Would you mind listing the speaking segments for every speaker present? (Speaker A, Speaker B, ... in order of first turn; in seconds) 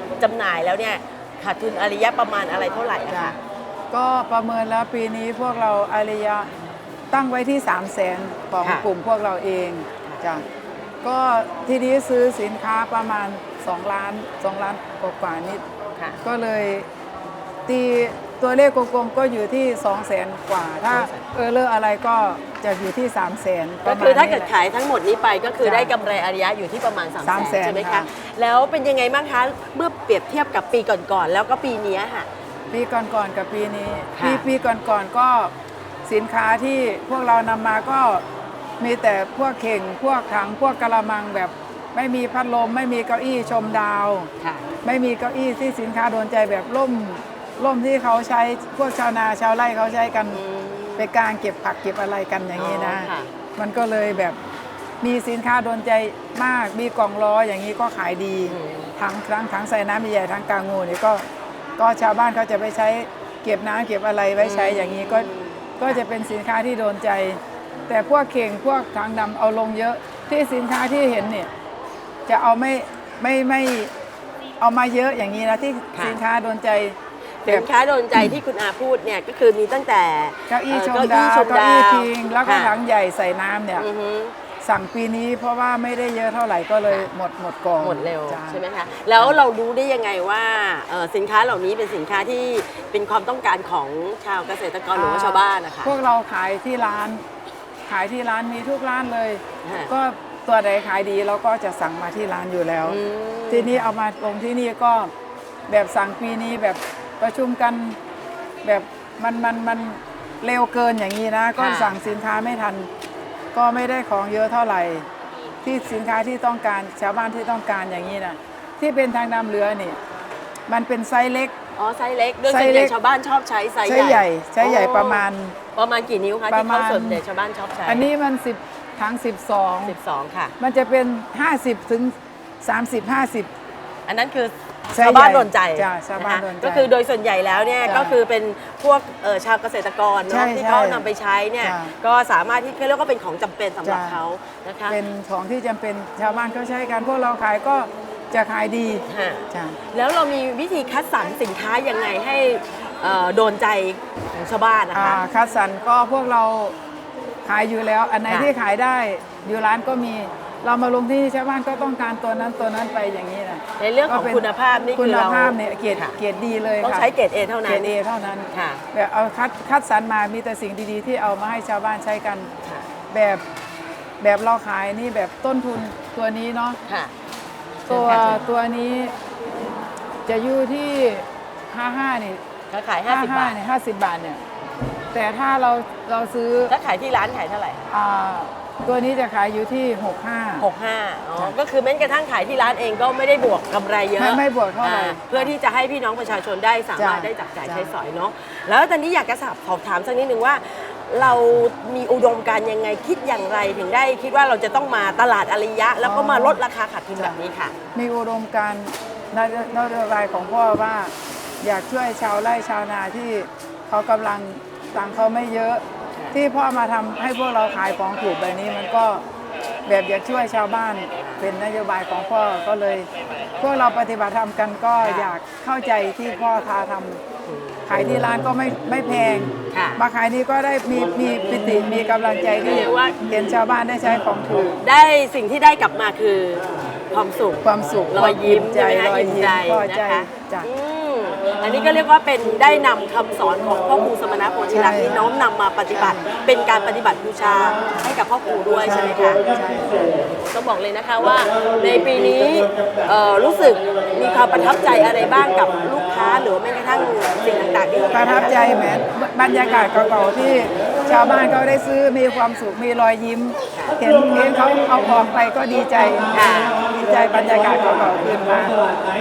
Speaker A: 0.2-3.4, 20.8-21.2, 23.8-32.3, 34.1-34.4, 44.4-44.7, 50.3-51.1, 52.5-53.3, 58.5-58.9, 64.4-66.0, 75.9-76.2, 77.4-82.7, 83.8-84.3, 87.8-95.9, 99.6-99.9, 102.8-103.9, 111.6-112.1, 121.8-125.2, 125.8-128.1, 129.8-130.5, 134.1-145.0, 149.1-155.2, 163.8-166.2, 166.8-167.9, 168.5-168.8, 176.9-177.1, 177.9-178.4, 182.7-183.6, 186.7-187.9, 190.6-207.7, 221.2-221.5, 225.0-225.3, 227.5-227.8, 229.7-230.0, 232.6-233.2, 234.8-249.4, 250.3-258.7, 266.3-266.8
Speaker B: 3.9-6.5, 7.1-10.4, 11.0-15.6, 16.2-16.9, 17.7-24.5, 25.6-25.9, 27.2-28.1, 32.7-35.5, 36.0-38.2, 38.8-44.3, 44.8-50.4, 51.0-54.4, 55.0-61.2, 61.8-71.5, 72.3-73.9, 74.6-77.0, 80.5-83.9, 84.6-88.6, 94.9-97.2, 97.9-103.0, 103.5-105.1, 105.7-108.0, 108.6-112.9, 113.5-115.0, 115.6-120.0, 120.7-121.5, 122.5-123.0, 123.8-125.5, 126.5-127.2, 127.9-130.0, 130.6-133.5, 134.9-136.9, 137.8-138.2, 140.3-141.1, 141.6-141.9, 143.8-144.2, 144.9-149.8, 154.9-156.8, 157.4-167.1, 167.7-172.5, 173.1-173.4, 174.2-176.8, 177.9-179.1, 180.3-182.4, 183.1-184.4, 185.1-186.7, 187.9-190.7, 194.2-195.5, 197.0-197.9, 206.0-206.6, 207.9-219.2, 219.9-223.1, 223.6-227.2, 227.9-234.8, 237.6-240.7, 244.7-245.2, 245.9-246.3, 248.8-250.1, 258.1-266.3, 266.8-268.8